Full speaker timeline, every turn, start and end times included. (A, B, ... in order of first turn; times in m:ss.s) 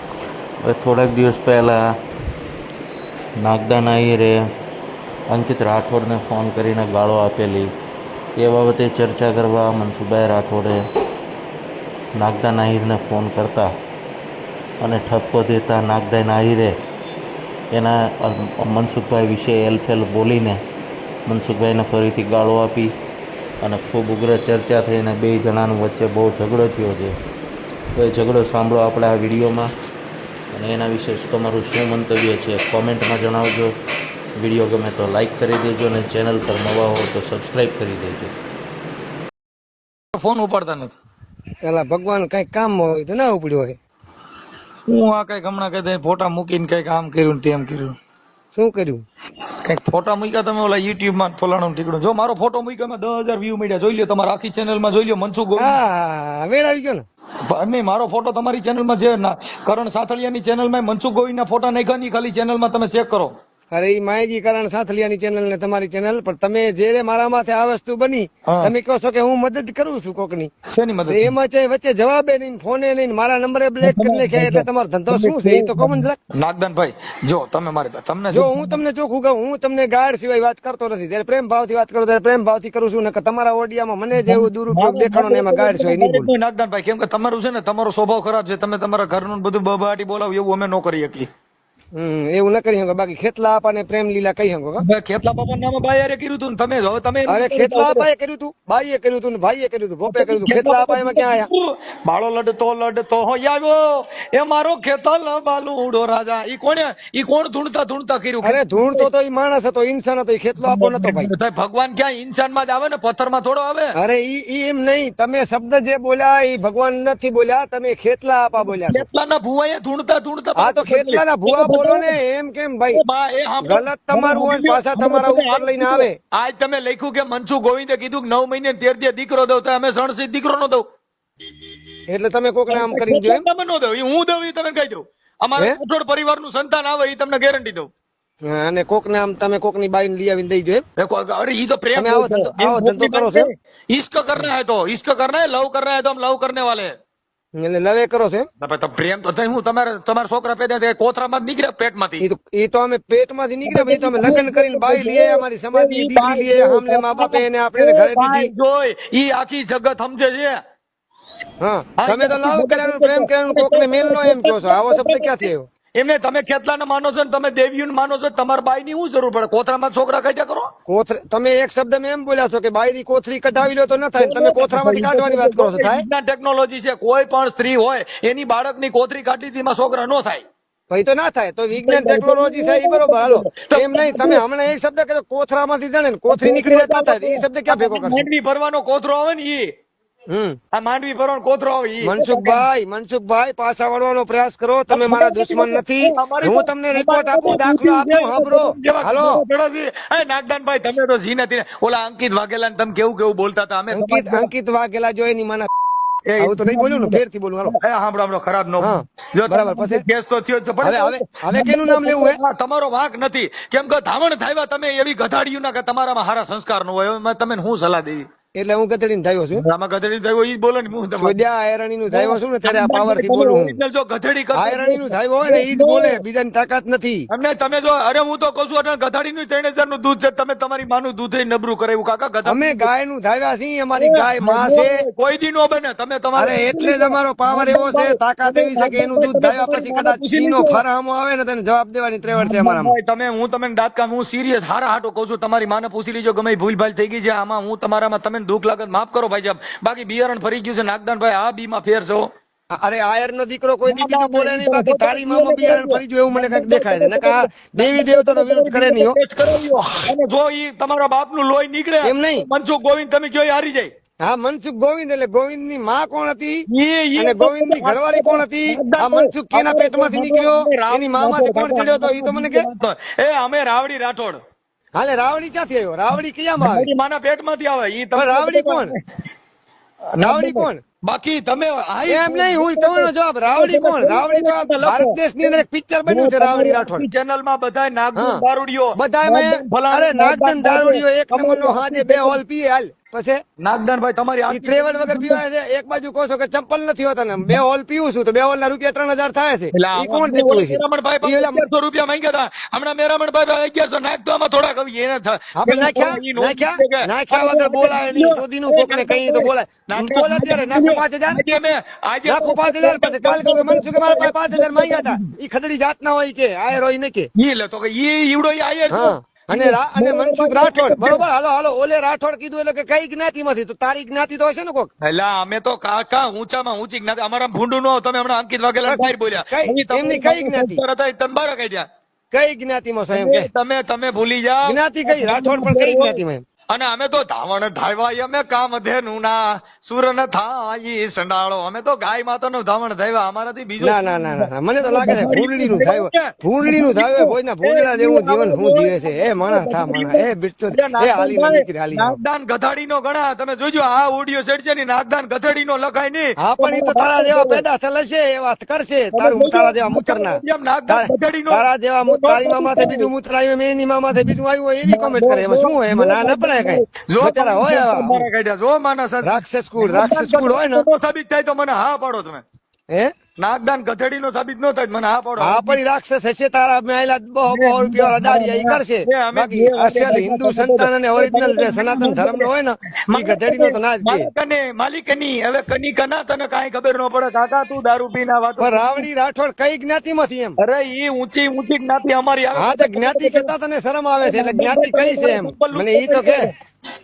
0:00.6-0:01.8 A
0:03.4-0:04.4 A
0:05.3-0:07.7 A
0:08.4-0:10.8 A
0:12.2-0:13.7 A
0:14.8-0:16.7 A
0:17.7-0:20.6 A
0:21.3-0:22.9 A
0:23.6-0:27.1 A
0:27.9-0:29.7 A
0:30.5-0:33.7 A
0:34.4-0:38.3 A
0:40.1-0:41.0 B
0:41.6-0:43.8 C
0:44.9-0:48.0 B
0:48.6-0:49.0 C
0:49.6-0:55.8 B
0:55.6-0:57.0 C
0:57.5-1:03.3 B
1:03.7-1:10.5 C
1:08.5-1:08.7 B
1:10.7-1:11.3 B
1:11.1-1:16.2 C
1:13.8-1:18.8 B
1:18.3-1:26.3 C
1:24.2-1:31.3 B
1:31.9-1:34.8 C
1:34.8-1:38.1 B
1:37.3-1:41.5 C
1:40.1-1:49.1 B
1:48.4-1:51.3 C
1:50.6-1:53.9 B
1:54.0-1:59.0 C
1:58.6-2:02.2 B
2:00.6-2:03.0 C
2:02.9-2:10.8 B
2:03.6-2:06.2 C
2:12.1-2:13.4 C
2:12.7-2:17.9 B
2:18.4-2:20.8 C
2:21.0-2:26.9 B
2:22.0-2:23.5 C
2:27.6-2:28.5 C
2:28.6-2:32.2 B
2:32.2-2:38.5 C
2:33.7-2:40.6 B
2:41.6-2:45.7 C
2:42.0-2:50.7 B
2:50.9-2:56.0 C
2:54.2-3:00.4 B
3:00.9-3:08.2 C
3:01.7-3:04.4 B
3:06.3-3:09.7 B
3:10.3-3:10.6 C
3:10.7-3:12.6 B
3:12.0-3:19.4 C
3:14.9-3:24.5 B
3:23.9-3:25.7 C
3:26.3-3:38.3 B
3:26.4-3:27.8 C
3:28.8-3:30.0 C
3:30.8-3:32.4 C
3:38.6-3:39.6 C
3:39.6-3:41.4 B
3:41.2-3:43.8 C
3:42.1-3:46.2 B
3:44.5-3:47.3 C
3:47.3-3:52.9 B
3:52.5-3:55.0 C
3:54.0-4:00.8 B
3:56.4-4:02.9 C
4:02.3-4:12.3 B
4:12.7-4:19.2 C
4:13.8-4:23.9 B
4:22.0-4:22.5 C
4:24.2-4:26.7 C
4:26.7-4:34.4 B
4:27.2-4:32.7 C
4:35.0-4:36.9 C
4:36.6-4:39.0 B
4:38.2-4:38.9 C
4:40.1-4:52.4 B
4:40.2-4:40.8 C
4:42.1-4:47.0 C
4:48.2-4:48.4 C
4:49.0-4:53.4 C
4:53.6-4:55.4 B
4:54.5-5:01.6 C
4:59.7-5:15.3 B
5:05.6-5:11.4 C
5:12.3-5:17.3 C
5:17.4-5:21.2 B
5:18.9-5:24.9 C
5:25.0-5:31.9 B
5:28.9-5:30.8 C
5:32.3-5:33.5 C
5:33.1-5:36.2 B
5:34.6-5:36.4 C
5:36.7-5:57.6 B
5:43.8-5:52.2 C
5:56.4-6:08.3 C
5:59.1-6:03.1 B
6:04.9-6:12.4 B
6:09.2-6:10.8 C
6:13.4-6:15.8 B
6:15.4-6:24.3 C
6:17.5-6:22.5 B
6:23.1-6:29.1 B
6:28.6-6:30.6 C
6:30.6-6:33.5 B
6:32.6-6:36.5 C
6:34.2-6:36.5 B